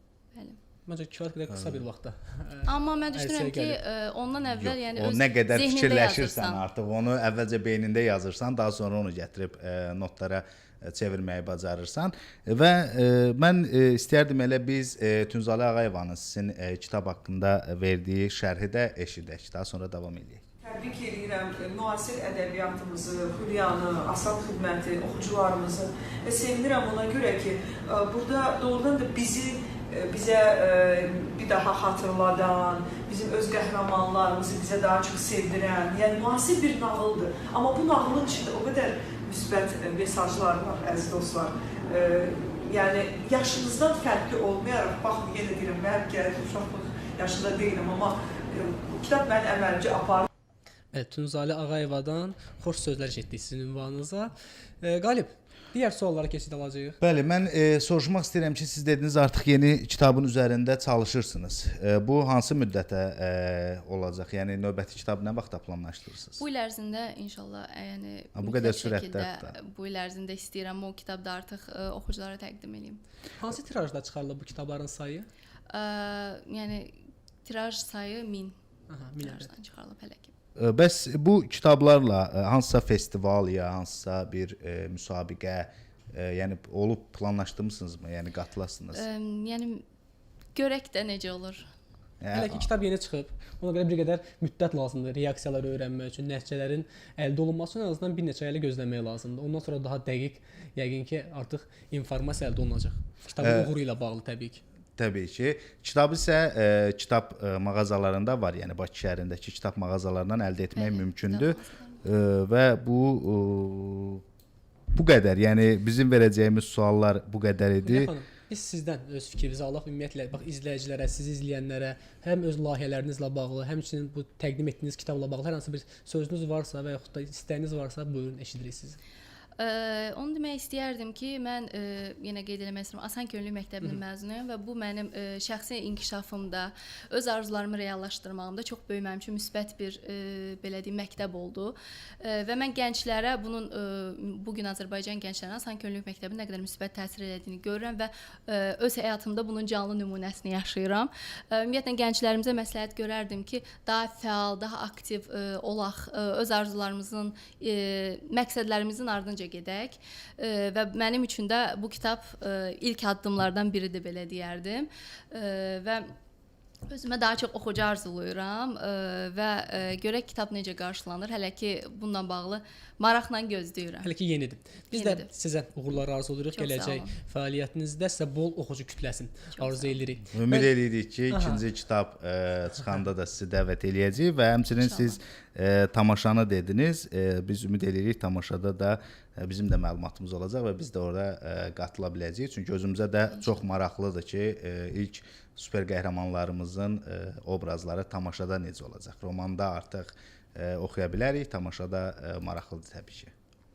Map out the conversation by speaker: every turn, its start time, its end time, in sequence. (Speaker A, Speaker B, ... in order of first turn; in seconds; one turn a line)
Speaker A: 0.3-0.6
Speaker B: 0.9-3.8
Speaker A: 2.6-6.6
Speaker C: 4.5-20.4
Speaker D: 20.6-50.3
Speaker B: 50.9-57.0
Speaker C: 57.0-66.4
Speaker A: 66.4-73.0
Speaker C: 68.4-69.5
Speaker B: 73.4-75.3
Speaker A: 75.7-76.9
Speaker A: 77.5-78.6
Speaker B: 78.9-79.5
Speaker A: 79.2-80.3
Speaker C: 80.6-89.0
Speaker A: 88.9-89.8
Speaker A: 90.5-91.7
Speaker C: 92.2-92.7
Speaker B: 92.3-104.6
Speaker C: 103.4-103.7
Speaker C: 105.0-114.2
Speaker A: 110.7-112.1
Speaker C: 114.9-118.1
Speaker B: 117.8-129.0
Speaker A: 129.6-166.1
Speaker A: 166.9-174.1
Speaker B: 174.0-180.7
Speaker A: 174.9-175.3
Speaker A: 176.6-177.1
Speaker A: 179.6-180.0
Speaker C: 180.3-203.3
Speaker B: 181.3-181.6
Speaker A: 184.7-185.2